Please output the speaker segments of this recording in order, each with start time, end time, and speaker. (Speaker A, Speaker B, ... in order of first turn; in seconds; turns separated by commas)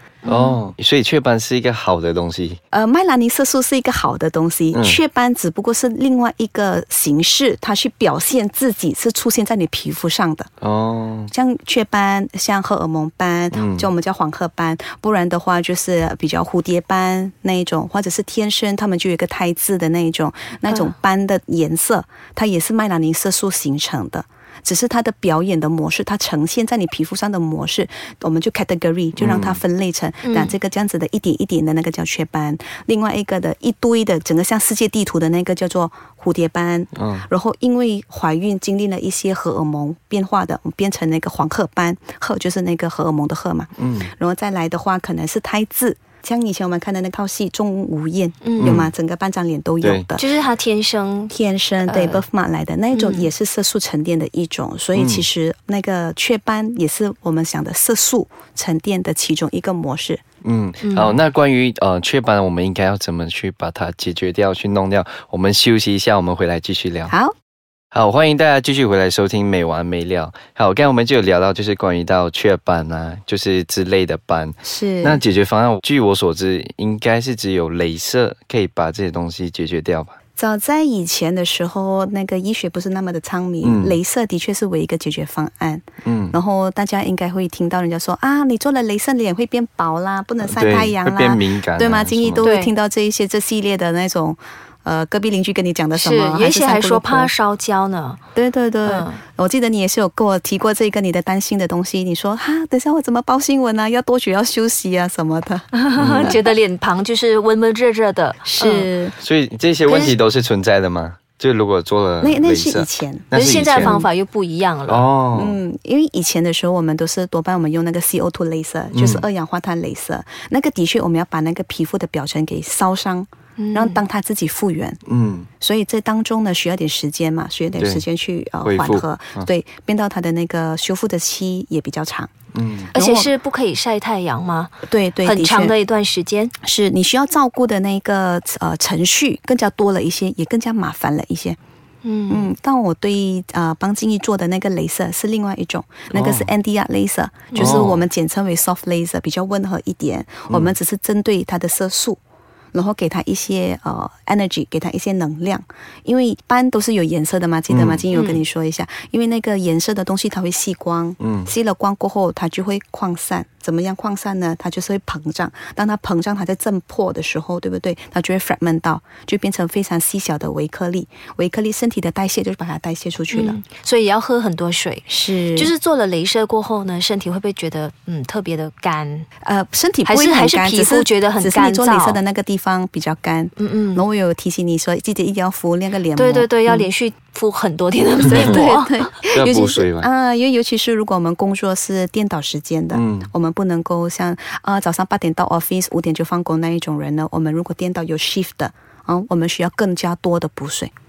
Speaker A: 0.2-0.6, Speaker B: 0.3-2.6, Speaker C: 2.7-10.5, Speaker B: 4.7-5.0, Speaker B: 10.6-11.3, Speaker C: 11.3-50.2, Speaker B: 13.5-13.9, Speaker A: 20.7-20.9, Speaker B: 29.2-29.6, Speaker A: 30.2-30.5, Speaker B: 36.9-37.3, Speaker B: 43.8-44.1, Speaker A: 48.4-48.8, Speaker B: 48.6-48.9, Speaker B: 49.8-50.1, Speaker A: 50.2-52.2, Speaker C: 51.3-60.2, Speaker A: 52.9-53.3, Speaker B: 54.9-55.2, Speaker B: 60.4-67.1, Speaker A: 60.8-61.2, Speaker C: 67.1-67.3, Speaker B: 67.9-80.1, Speaker C: 74.6-75.2, Speaker C: 80.4-97.3, Speaker B: 83.6-84.0, Speaker B: 86.0-86.4, Speaker B: 90.4-92.4, Speaker A: 92.4-92.7, Speaker A: 96.0-98.2, Speaker C: 98.3-106.4, Speaker A: 98.8-99.2, Speaker A: 105.7-108.9, Speaker B: 106.0-106.4, Speaker C: 108.4-109.1, Speaker B: 109.2-114.1, Speaker C: 109.9-110.2, Speaker C: 112.2-114.1, Speaker A: 113.3-115.0, Speaker B: 114.9-115.6, Speaker C: 115.3-125.0, Speaker B: 118.9-119.2, Speaker A: 123.6-124.0, Speaker B: 125.1-125.5, Speaker C: 125.6-132.3, Speaker B: 127.8-128.0, Speaker B: 128.6-129.5, Speaker B: 132.5-132.9, Speaker A: 132.9-134.7, Speaker C: 132.9-133.3, Speaker C: 134.9-135.8, Speaker A: 135.2-136.5, Speaker C: 136.6-141.6, Speaker A: 142.0-142.5, Speaker C: 142.3-152.2, Speaker B: 146.1-146.5, Speaker A: 147.5-147.8, Speaker B: 147.6-148.0, Speaker C: 152.7-173.6, Speaker B: 157.7-158.0, Speaker A: 158.1-158.4, Speaker B: 161.2-161.5, Speaker A: 173.3-179.3, Speaker C: 175.1-175.7, Speaker C: 179.4-186.9, Speaker A: 180.1-182.2, Speaker A: 183.6-184.0, Speaker A: 186.1-189.0, Speaker C: 188.2-200.9, Speaker B: 189.3-190.1, Speaker B: 192.9-193.3